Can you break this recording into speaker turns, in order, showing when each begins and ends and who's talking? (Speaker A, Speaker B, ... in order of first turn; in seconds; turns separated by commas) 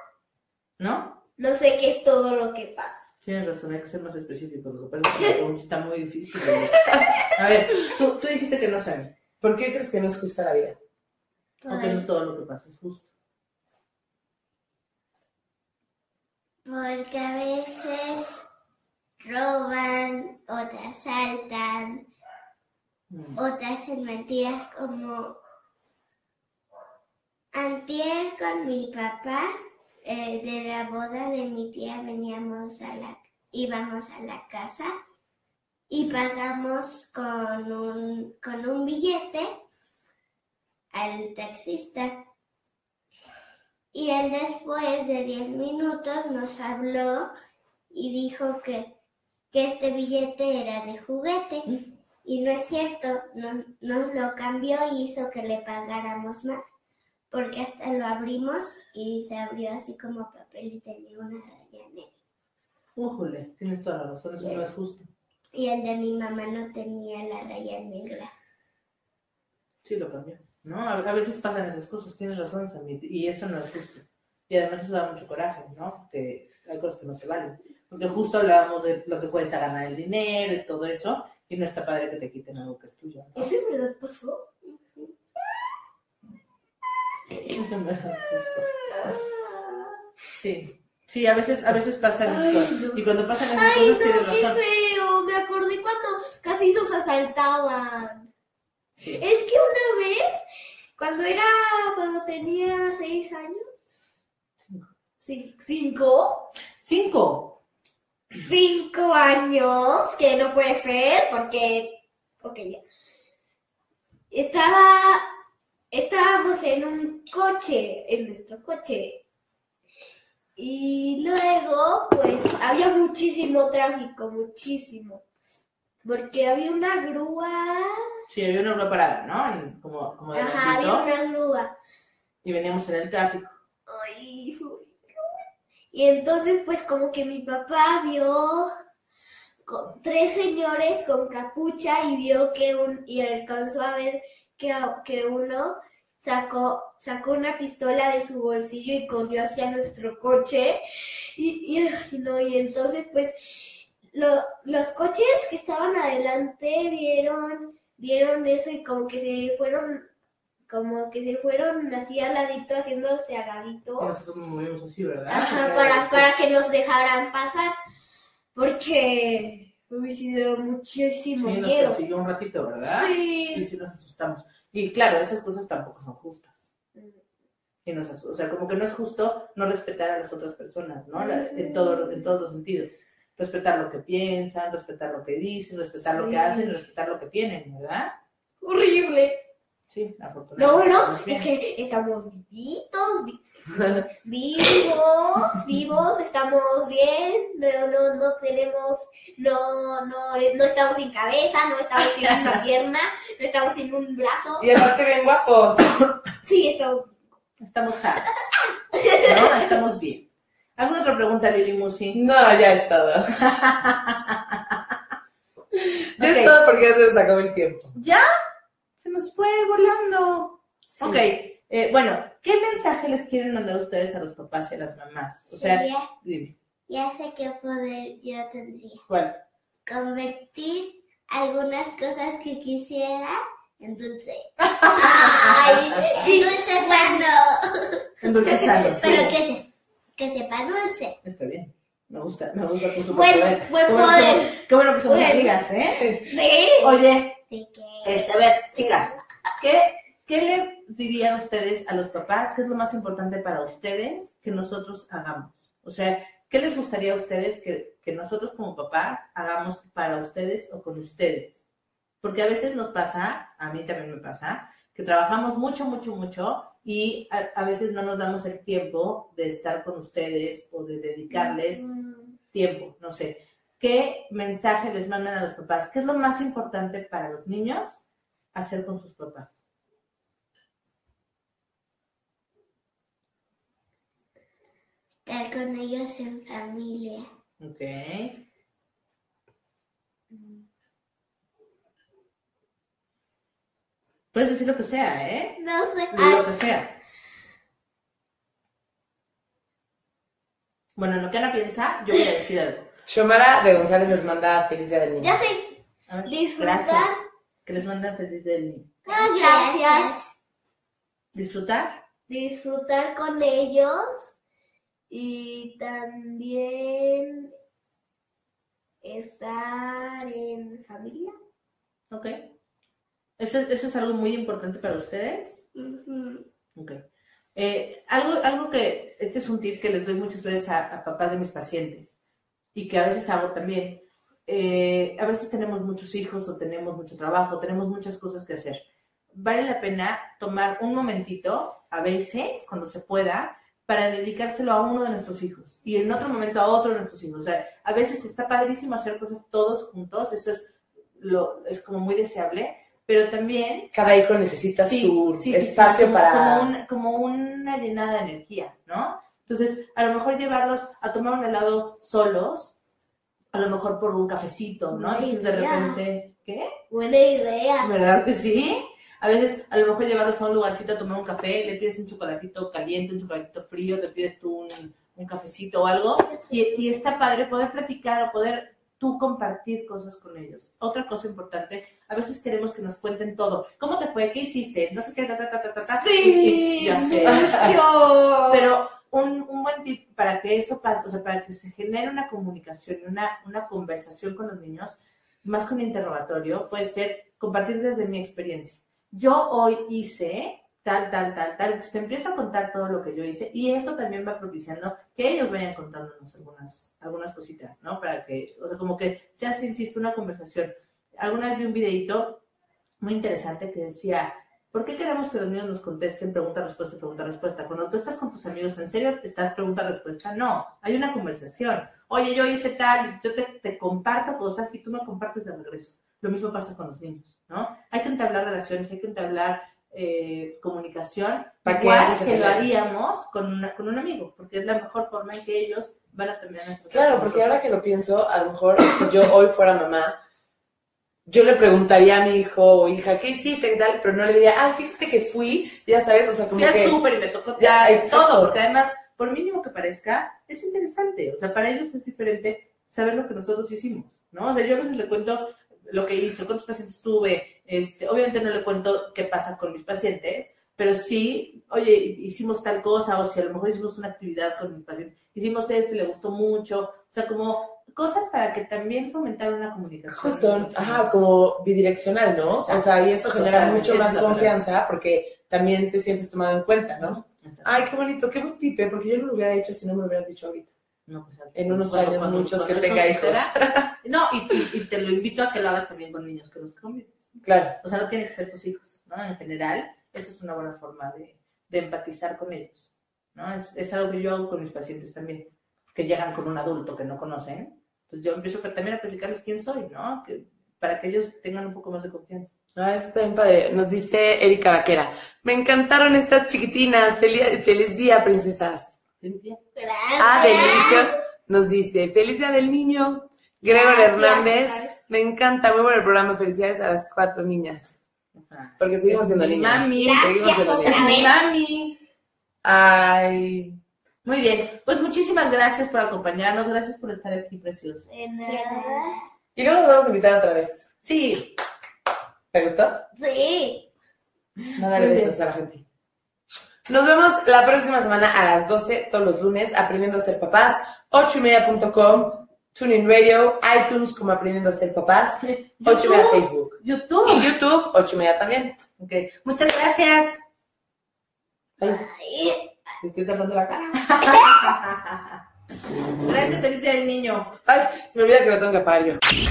Speaker A: 0.8-1.2, Speaker B: 1.4-3.0, Speaker A: 3.2-9.1, Speaker C: 9.4-10.8, Speaker B: 11.6-12.0, Speaker A: 11.7-13.1, Speaker D: 16.6-18.4, Speaker D: 19.2-22.1, Speaker A: 23.1-23.4, Speaker D: 23.4-25.4, Speaker D: 27.5-29.5, Speaker D: 30.0-34.9, Speaker D: 35.9-39.5, Speaker D: 40.9-42.2, Speaker D: 43.9-47.3, Speaker D: 47.9-48.9, Speaker D: 49.5-56.7, Speaker D: 57.3-62.1, Speaker A: 63.0-65.1, Speaker D: 64.4-64.7, Speaker D: 65.5-68.3, Speaker A: 69.8-83.5, Speaker B: 83.3-84.4, Speaker A: 87.5-89.2, Speaker B: 88.7-90.0, Speaker A: 90.3-94.6, Speaker B: 92.2-98.3, Speaker A: 99.0-99.2, Speaker B: 99.2-100.4, Speaker B: 101.0-103.7, Speaker B: 105.2-106.5, Speaker A: 106.8-107.6, Speaker B: 108.3-112.8, Speaker B: 114.3-115.2, Speaker B: 115.9-119.2, Speaker B: 120.6-125.2, Speaker B: 126.0-128.0, Speaker A: 128.3-131.1, Speaker B: 130.3-131.7, Speaker A: 132.4-133.5, Speaker B: 133.9-135.3, Speaker B: 135.9-138.7, Speaker B: 139.6-150.8, Speaker B: 151.3-160.1, Speaker B: 160.7-164.1, Speaker A: 164.0-166.4, Speaker B: 165.3-167.7, Speaker B: 168.5-172.0, Speaker A: 171.4-176.5, Speaker B: 172.8-173.7, Speaker B: 176.9-177.2, Speaker A: 177.8-188.1, Speaker B: 181.2-182.2, Speaker B: 186.1-186.8, Speaker B: 188.6-189.4, Speaker A: 189.9-191.5, Speaker B: 190.6-204.8, Speaker A: 202.1-202.6, Speaker C: 204.6-205.9, Speaker B: 206.4-207.3, Speaker A: 207.6-208.3, Speaker B: 208.9-209.6, Speaker A: 209.2-210.2, Speaker A: 210.8-212.2, Speaker C: 212.1-213.3, Speaker A: 213.4-214.8, Speaker C: 215.7-217.9, Speaker A: 216.2-216.6, Speaker A: 217.9-218.2, Speaker A: 219.0-226.5, Speaker C: 221.0-221.3, Speaker D: 225.5-226.1, Speaker D: 226.9-229.1, Speaker A: 229.1-229.4, Speaker D: 229.8-241.2, Speaker A: 234.6-236.2, Speaker B: 236.1-237.3, Speaker A: 238.2-239.4, Speaker B: 239.0-239.3, Speaker A: 241.2-246.1, Speaker B: 243.1-245.6, Speaker C: 245.9-246.2, Speaker B: 246.3-247.0, Speaker A: 246.8-247.3, Speaker D: 247.5-248.3, Speaker A: 248.0-261.6, Speaker A: 262.2-271.8, Speaker B: 271.3-272.3, Speaker A: 272.5-278.0, Speaker A: 278.5-279.5, Speaker D: 285.2-287.3, Speaker A: 287.6-288.4, Speaker B: 290.3-290.6, Speaker A: 294.3-295.6, Speaker B: 295.6-296.4, Speaker A: 296.1-297.0, Speaker A: 300.9-302.9, Speaker C: 303.1-305.4, Speaker B: 305.2-307.2, Speaker A: 306.1-308.9, Speaker B: 309.0-310.2, Speaker D: 309.1-310.2, Speaker A: 311.3-312.0, Speaker B: 312.3-314.3, Speaker B: 315.1-317.5, Speaker B: 319.0-321.3, Speaker A: 322.1-322.5, Speaker A: 323.4-325.6, Speaker D: 325.8-326.4, Speaker A: 326.8-327.0, Speaker A: 327.5-332.1, Speaker A: 332.7-338.8, Speaker A: 339.3-354.2, Speaker C: 353.9-356.7, Speaker A: 354.8-362.7, Speaker A: 363.5-366.7, Speaker B: 364.9-366.0, Speaker B: 366.9-367.9, Speaker A: 367.8-387.8, Speaker B: 376.3-376.8, Speaker B: 386.0-388.6, Speaker C: 387.2-387.6, Speaker A: 388.5-412.4, Speaker A: 413.0-437.5, Speaker C: 431.6-432.7, Speaker C: 436.9-440.1, Speaker C: 441.2-447.0, Speaker A: 446.5-471.1, Speaker C: 447.6-448.6, Speaker C: 470.1-480.7, Speaker A: 472.4-474.6, Speaker A: 477.0-477.9, Speaker A: 481.1-502.5, Speaker C: 481.5-483.9, Speaker C: 487.4-487.8, Speaker C: 502.8-508.9, Speaker A: 509.2-509.6, Speaker B: 509.8-511.1, Speaker C: 510.2-517.9, Speaker D: 510.3-511.0, Speaker B: 513.6-515.0, Speaker A: 518.3-522.0, Speaker C: 518.8-521.2, Speaker D: 520.0-521.4, Speaker B: 520.1-521.3, Speaker C: 522.6-523.8, Speaker A: 524.2-528.1, Speaker B: 528.1-529.2, Speaker D: 528.4-529.2, Speaker C: 529.5-530.8, Speaker A: 531.0-531.6, Speaker C: 532.5-533.0, Speaker B: 533.1-533.9, Speaker A: 534.6-535.4, Speaker C: 534.8-535.8, Speaker C: 536.9-548.8, Speaker A: 545.5-547.5, Speaker A: 549.0-550.4, Speaker C: 551.8-552.0, Speaker B: 551.8-552.7, Speaker C: 553.0-554.0, Speaker A: 554.0-555.4, Speaker A: 556.3-557.5, Speaker C: 557.6-559.2